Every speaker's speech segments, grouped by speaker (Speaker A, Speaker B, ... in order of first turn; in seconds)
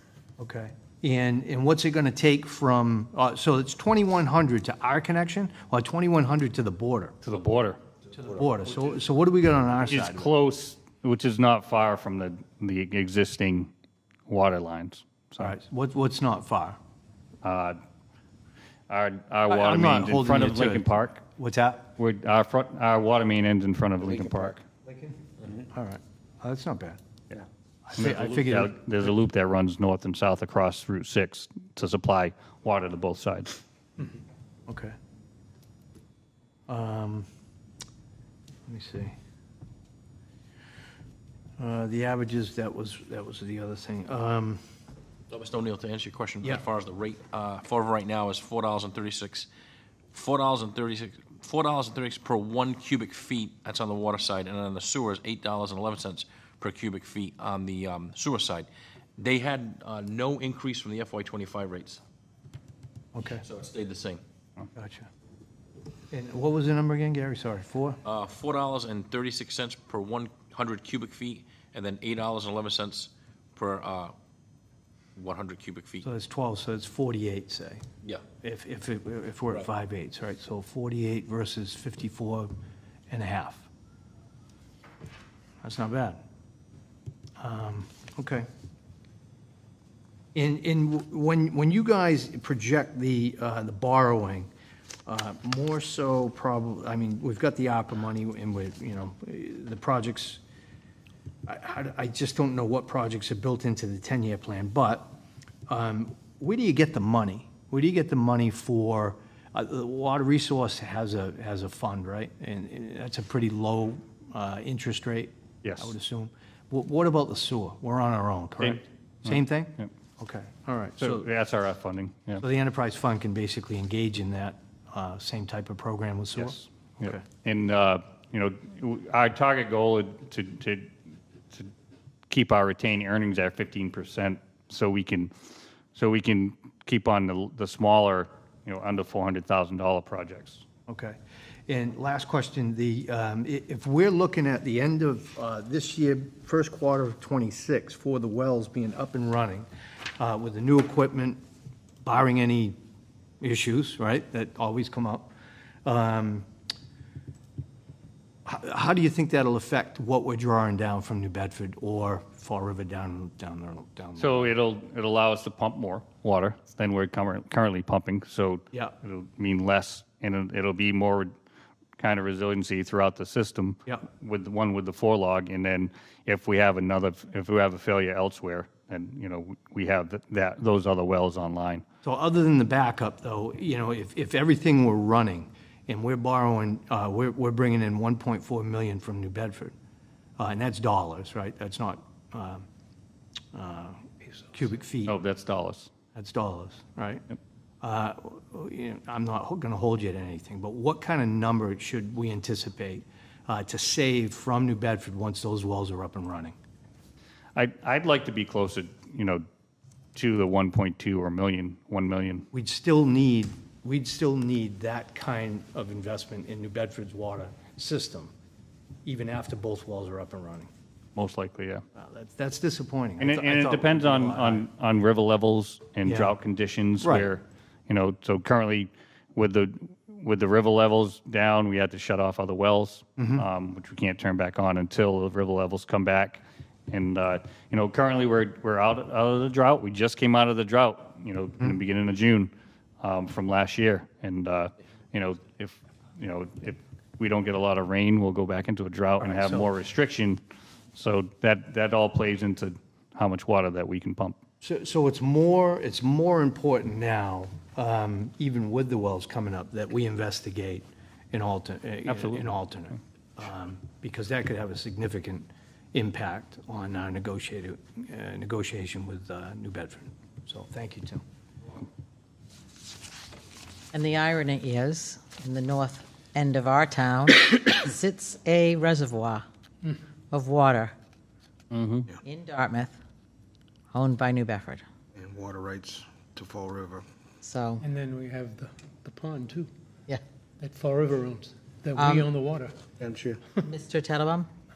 Speaker A: 0.4-7.2, 8.1-10.3, 15.4-16.8, 19.5-21.9, 25.7-27.0, 27.9-29.1, 34.7-34.9, 36.7-37.3, 38.6-39.1, 41.6-44.6, 63.1-63.4, 64.7-65.1, 66.1-68.0, 76.0-77.8, 78.4-82.5, 83.1-83.7, 85.6-86.2, 87.4-88.5, 90.3-94.5, 95.0-100.4, 101.5-105.2, 105.7-121.3, 122.4-127.2, 140.9-141.2, 141.7-151.4, 152.0-152.8, 153.4-155.3, 155.8-156.5, 158.4-164.5, 182.0-189.7, 190.4-192.6, 193.5-195.2, 196.1-197.2, 197.8-206.6, 212.5-218.3, 219.0-220.7, 221.9-224.7, 226.0-226.3, 227.0-227.3, 233.2-233.4, 249.2-249.7, 254.6-271.2
Speaker B: 7.2-7.8, 9.9-13.7, 14.3-15.6, 17.4-17.8, 18.9-21.2, 22.0-24.6, 27.9-33.5, 115.6-115.9, 118.6-119.9, 121.0-122.4, 126.4-130.9, 132.3-135.3, 135.9-140.6, 164.2-171.3, 172.0-181.8, 195.1-195.9, 207.5-209.4, 210.2-212.5, 221.2-221.8, 223.2-242.5, 243.0-250.4, 250.9-254.4, 262.1-262.4, 281.7-282.1
Speaker C: 45.3-49.5, 50.1-62.0, 63.4-64.2, 68.0-74.1, 75.2-76.0
Speaker D: 273.9-279.4, 280.3-280.9, 282.2-283.0, 283.9-284.9, 287.4-287.8, 291.9-292.3, 293.6-294.5
Speaker E: 285.1-287.1, 293.0-293.4
Speaker F: 287.8-289.7, 290.6-292.8